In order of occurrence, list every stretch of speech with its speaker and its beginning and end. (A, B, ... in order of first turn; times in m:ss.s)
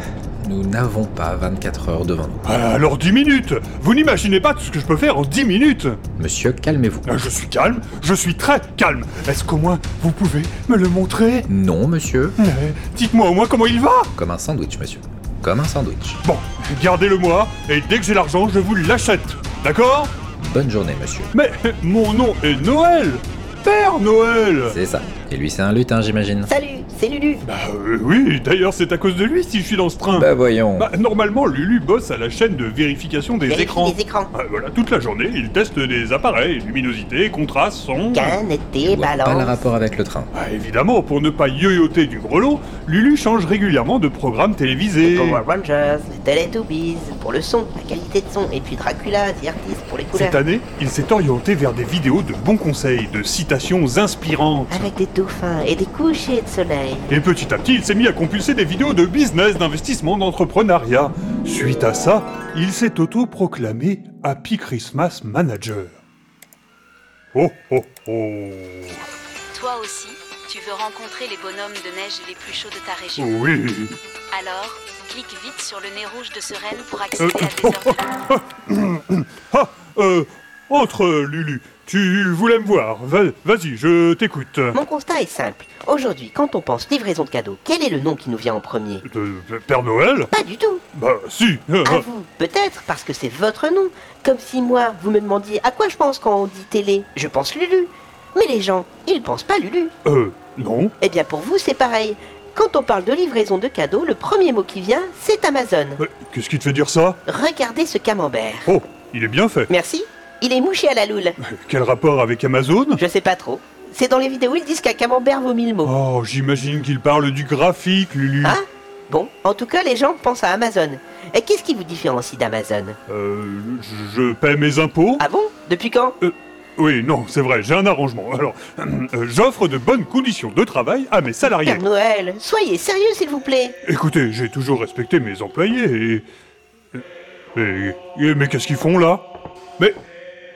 0:00.4-0:02.5 A
0:02.4-0:06.0 B
0:06.2-0:07.1 A
0:07.1-0:11.5 B
0:11.5-0:12.4 A
0:12.4-0:14.1 B
0:14.2-0:16.2 A
0:16.2-0:20.1 B
0:20.4-0:21.3 A
0:21.3-0:24.8 B
0:24.7-0:26.5 A
0:26.5-0:27.4 C
0:27.4-0:38.4 B
0:30.1-0:30.9 A
0:33.4-0:34.3 C
0:38.1-0:39.6 C
0:38.8-0:40.3 A
0:40.3-0:45.4 B
0:45.0-0:50.4 C
0:50.1-0:54.9 B
0:54.7-0:57.1 C
0:57.1-1:06.0 B
1:07.3-1:09.0 B
1:09.5-1:13.4 D
1:13.2-1:14.0 B
1:14.3-1:18.0 D
1:17.2-1:24.8 B
1:24.7-1:29.0 C
1:29.0-1:30.3 B
1:30.3-1:30.8 C
1:30.9-1:32.0 B
1:31.8-1:39.9 C
1:40.0-1:40.9 B
1:41.0-1:46.0 C
1:46.0-1:47.2 B
1:47.3-1:48.7 C
1:48.7-1:49.7 B
1:49.7-1:51.4 C
1:51.4-1:53.0 B
1:53.0-1:55.9 C
1:55.8-1:58.6 B
1:58.4-2:03.0 C
2:03.1-2:05.2 B
2:05.2-2:06.2 C
2:06.2-2:11.8 B
2:11.5-2:13.8 C
2:13.8-2:16.2 B
2:17.6-2:19.3 B